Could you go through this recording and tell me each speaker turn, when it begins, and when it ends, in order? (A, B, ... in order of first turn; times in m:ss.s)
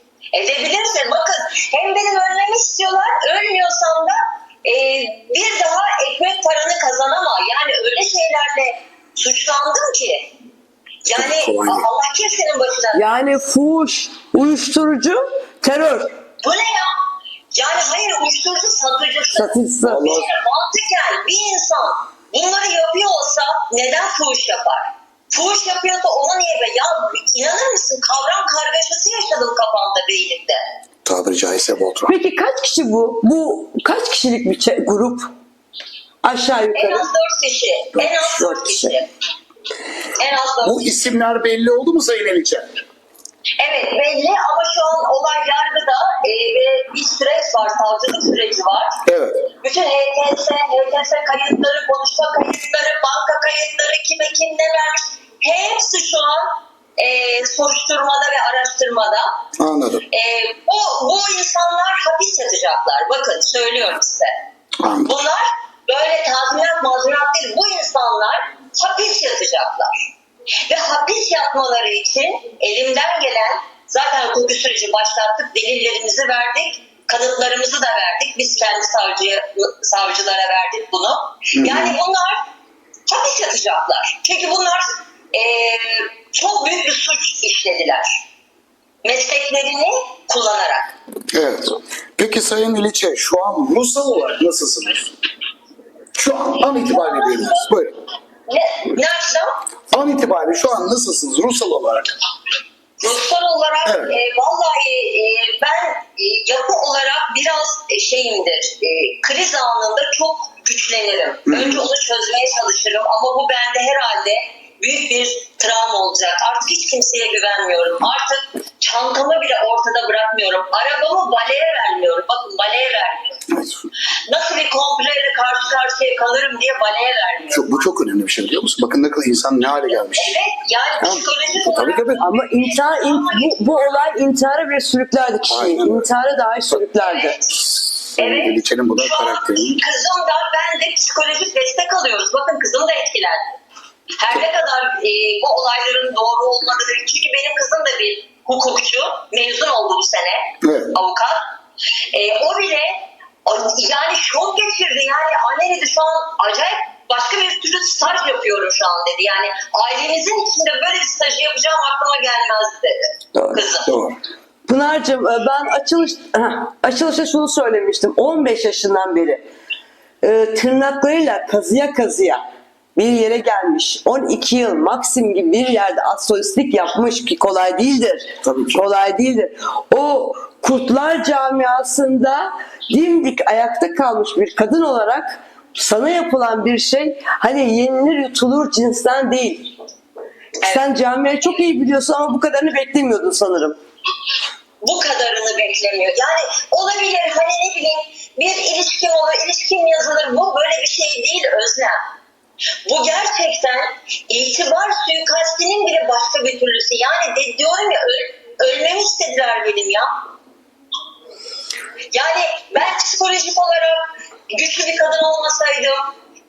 0:00.3-0:10.3 A
0:11.0-0:13.0 A
0:11.1-0:11.9 B
0:12.9-0:16.1 C
0:16.4-0:16.9 A
0:17.5-0:30.6 A
0:19.3-0:20.2 C
0:19.8-0:20.3 B
0:31.0-0:32.1 B
0:32.1-0:35.3 C
0:36.2-0:37.1 C
0:36.7-0:39.1 A
0:38.0-0:38.9 C
0:40.2-0:40.8 A
0:40.6-0:42.8 B
0:43.6-0:49.0 A
0:49.0-0:49.5 B
0:49.6-0:59.3 A
0:59.6-1:00.0 B
1:00.1-1:04.3 A
1:04.8-1:05.2 B
1:05.0-1:10.0 A
1:10.7-1:22.4 A
1:21.5-1:22.0 B
1:23.1-1:28.2 A
1:29.0-1:30.9 A
1:31.3-1:35.1 B
1:36.1-1:38.0 B
1:36.7-1:37.7 A
1:38.5-1:39.6 A
1:39.9-1:42.1 B
1:43.0-2:03.4 A
1:43.8-1:44.1 B
1:51.5-1:51.8 B
2:03.5-2:03.9 B
2:04.3-2:07.7 A
2:07.5-2:10.4 B
2:10.2-2:13.8 A
2:11.0-2:12.2 B
2:12.2-2:17.4 C
2:15.5-2:16.1 B
2:17.0-2:17.5 A
2:17.6-2:19.8 B
2:18.2-2:23.6 A
2:24.2-2:31.4 A
2:30.6-2:31.0 B
2:32.1-2:43.9 A
2:43.3-2:43.6 C
2:43.8-2:44.2 B
2:44.7-2:49.4 C
2:50.2-2:52.4 C
2:53.0-3:09.7 C
2:58.4-2:58.8 B
3:10.6-3:13.8 C
3:14.8-3:22.0 A
3:22.8-3:30.1 A
3:32.1-3:36.1 A